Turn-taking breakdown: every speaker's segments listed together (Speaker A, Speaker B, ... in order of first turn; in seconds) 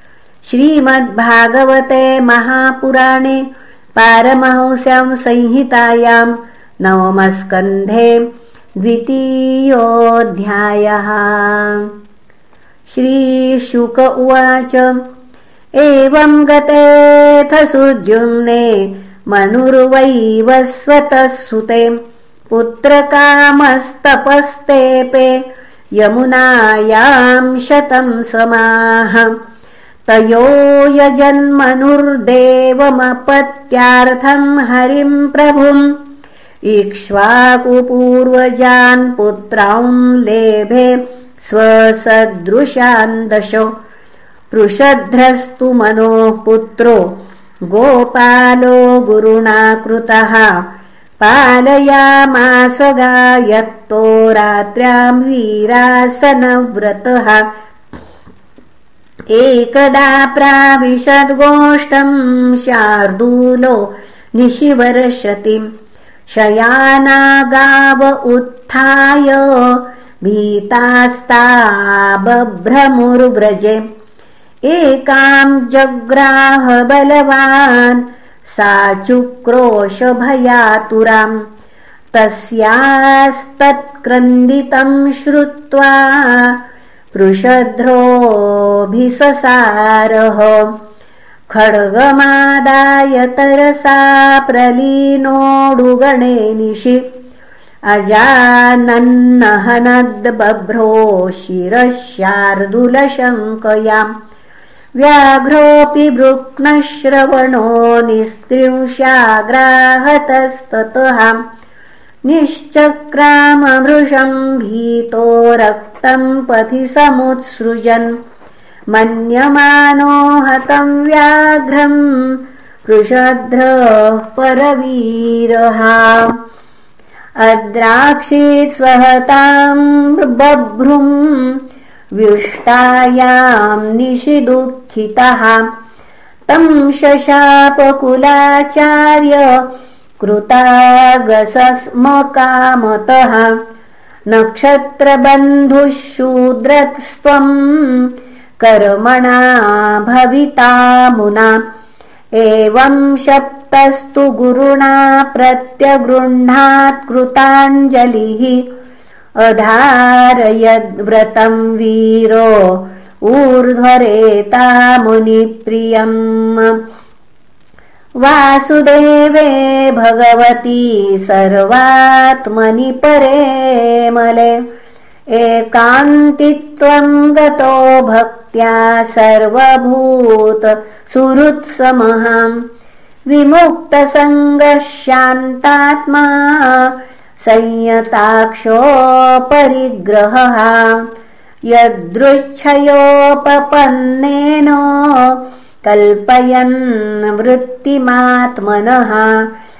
Speaker A: 0.4-8.2, 8.8-11.9, 12.9-15.0, 15.8-21.9, 22.5-25.4, 26.0-29.3, 30.1-35.9, 36.6-43.7, 44.5-47.1, 47.7-50.6, 51.2-57.5, 59.3-65.6, 66.3-73.8, 74.6-81.4, 82.1-86.6, 87.1-90.7, 91.5-97.0, 97.9-104.1, 105.0-111.4, 112.2-118.1, 118.9-126.4, 127.4-131.6, 132.2-135.7, 136.5-139.6, 140.2-143.6, 144.3-151.6, 152.3-158.7, 159.4-166.8, 168.2-174.6, 175.3-182.6, 183.3-191.1, 191.7-199.5